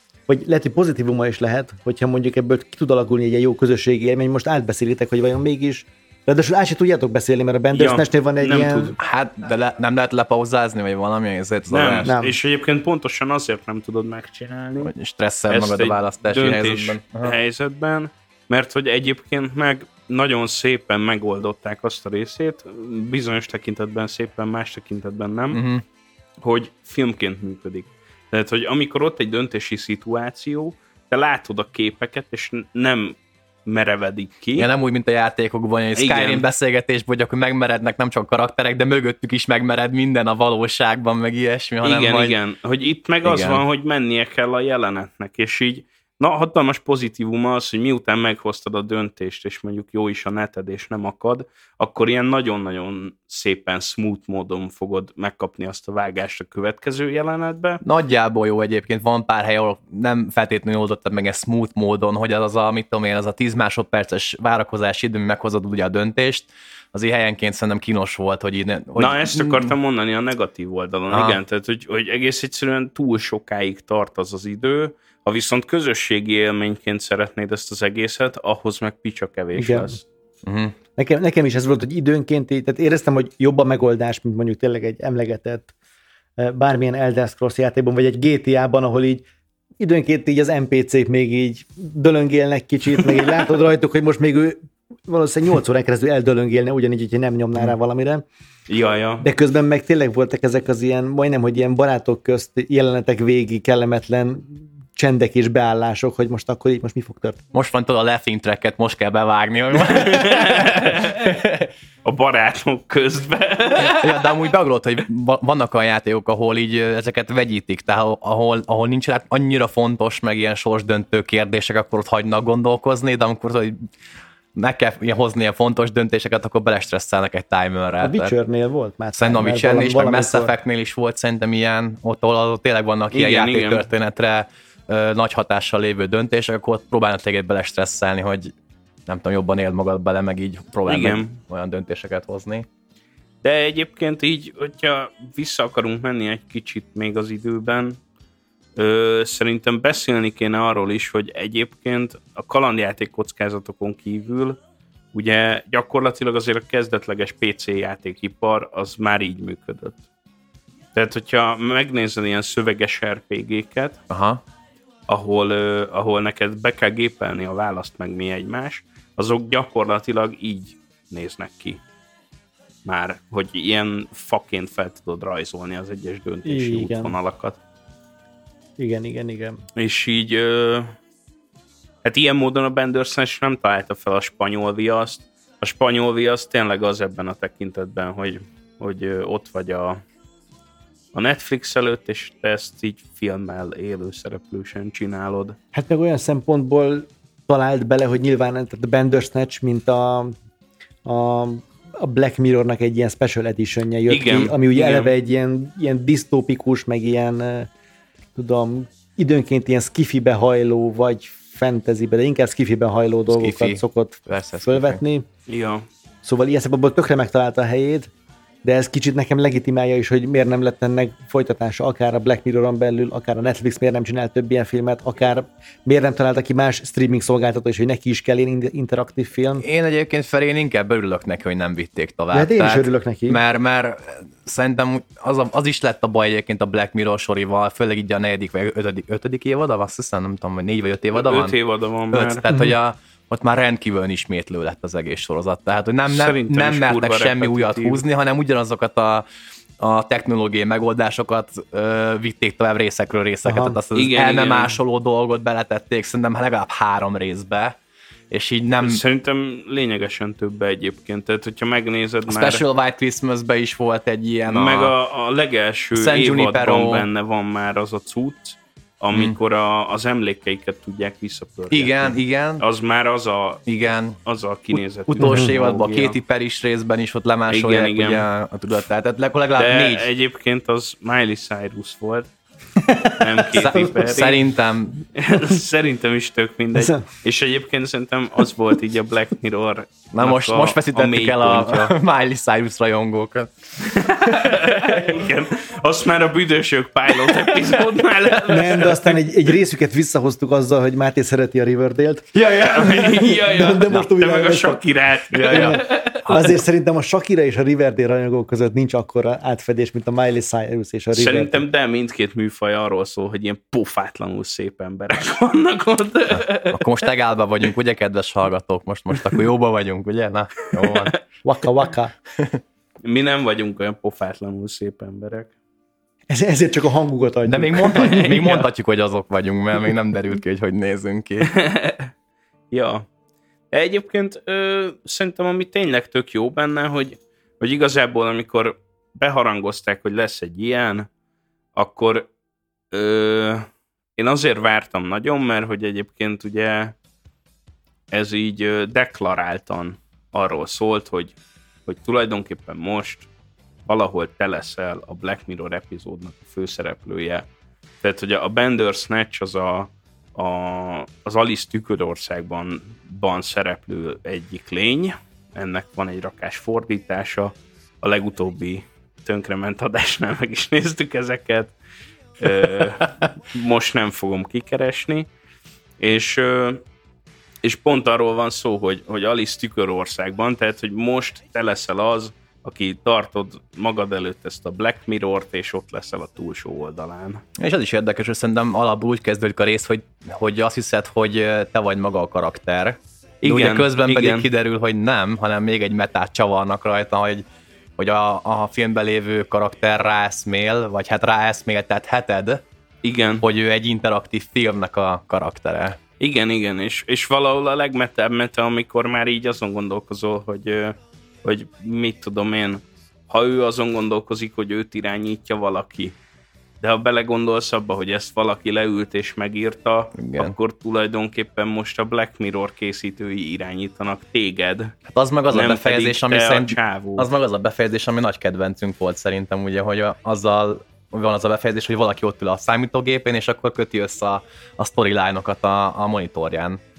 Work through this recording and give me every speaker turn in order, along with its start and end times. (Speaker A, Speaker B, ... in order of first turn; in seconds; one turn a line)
Speaker A: 0.3-8.9
Speaker B: 7.7-8.9
Speaker C: 9.0-12.1
Speaker B: 11.7-14.9
Speaker A: 12.0-12.4
Speaker C: 14.8-17.4
Speaker B: 15.5-25.6
Speaker C: 25.5-25.8
Speaker B: 26.4-34.7
Speaker C: 34.5-42.4
Speaker B: 36.0-36.4
Speaker B: 41.8-57.8
Speaker C: 43.2-43.6
Speaker C: 57.8-69.7
Speaker B: 69.0-80.0
Speaker C: 71.1-71.4
Speaker A: 79.5-80.0
Speaker C: 80.4-80.8
Speaker A: 81.0-85.7
Speaker A: 86.4-89.2
Speaker A: 89.8-98.2
Speaker B: 98.7-99.2
Speaker A: 99.2-107.4
Speaker C: 107.5-111.7
Speaker B: 109.8-111.4
Speaker B: 112.0-114.2
Speaker C: 113.8-123.8
Speaker C: 124.5-128.3
Speaker A: 128.0-130.5
Speaker C: 129.2-138.5
Speaker B: 133.1-133.8
Speaker C: 139.1-142.7
Speaker B: 140.9-141.4
Speaker B: 143.4-148.0
Speaker B: 148.8-154.6
Speaker B: 155.1-160.0
Speaker B: 160.9-164.0
Speaker C: 164.1-164.4
Speaker B: 165.1-171.8
Speaker B: 172.8-177.6
Speaker A: 176.4-177.1
Speaker A: 178.8-179.6
Speaker B: 179.7-180.9
Speaker B: 182.0-190.0
Speaker B: 191.1-195.6
Speaker A: 195.7-200.3
Speaker A: 201.0-207.7
Speaker B: 204.1-205.1
Speaker A: 208.3-215.2
Speaker C: 213.3-215.0
Speaker B: 215.5-215.8
Speaker A: 216.2-218.1
Speaker A: 218.6-229.6
Speaker C: 229.6-241.6
Speaker A: 232.3-233.4
Speaker B: 241.1-242.4
Speaker C: 242.1-249.2
Speaker B: 246.1-248.0
Speaker C: 249.8-257.8
Speaker A: 253.4-253.8
Speaker B: 253.9-254.8
Speaker C: 258.3-259.0
Speaker B: 258.8-262.6
Speaker C: 262.3-264.9
Speaker B: 264.5-273.6
Speaker C: 265.9-267.1
Speaker C: 271.7-272.6
Speaker C: 273.6-274.2
Speaker B: 274.2-276.2
Speaker C: 274.7-280.1
Speaker A: 275.2-275.5
Speaker B: 277.5-278.2
Speaker B: 279.6-282.3
Speaker A: 282.8-283.2
Speaker B: 283.2-284.4
Speaker C: 283.5-285.0
Speaker B: 285.1-291.9
Speaker A: 286.7-287.0
Speaker C: 290.1-295.2
Speaker B: 293.8-299.1
Speaker C: 297.1-297.8
Speaker A: 298.5-304.8
Speaker C: 302.3-303.4
Speaker B: 302.5-306.3
Speaker C: 305.3-306.6
Speaker A: 305.4-311.6
Speaker B: 311.1-316.9
Speaker C: 316.7-321.1
Speaker B: 320.8-321.1
Speaker A: 321.4-322.1
Speaker C: 322.4-322.6
Speaker B: 323.0-325.5
Speaker A: 326.3-328.5
Speaker C: 327.4-331.5
Speaker B: 328.1-328.6
Speaker B: 331.4-332.1
Speaker B: 332.7-333.1
Speaker B: 333.7-341.1
Speaker B: 341.7-342.3
Speaker B: 342.9-346.9
Speaker B: 348.1-353.3
Speaker B: 353.9-357.5
Speaker B: 358.0-371.7
Speaker B: 372.4-375.3
Speaker B: 376.0-376.8
Speaker B: 377.6-387.4
Speaker C: 387.6-397.4
Speaker B: 393.4-394.5
Speaker C: 398.0-402.6
Speaker B: 403.0-403.4
Speaker C: 403.4-406.0
Speaker B: 406.2-416.1
Speaker B: 416.8-424.9
Speaker C: 420.1-420.6
Speaker C: 425.1-436.8
Speaker B: 425.5-427.3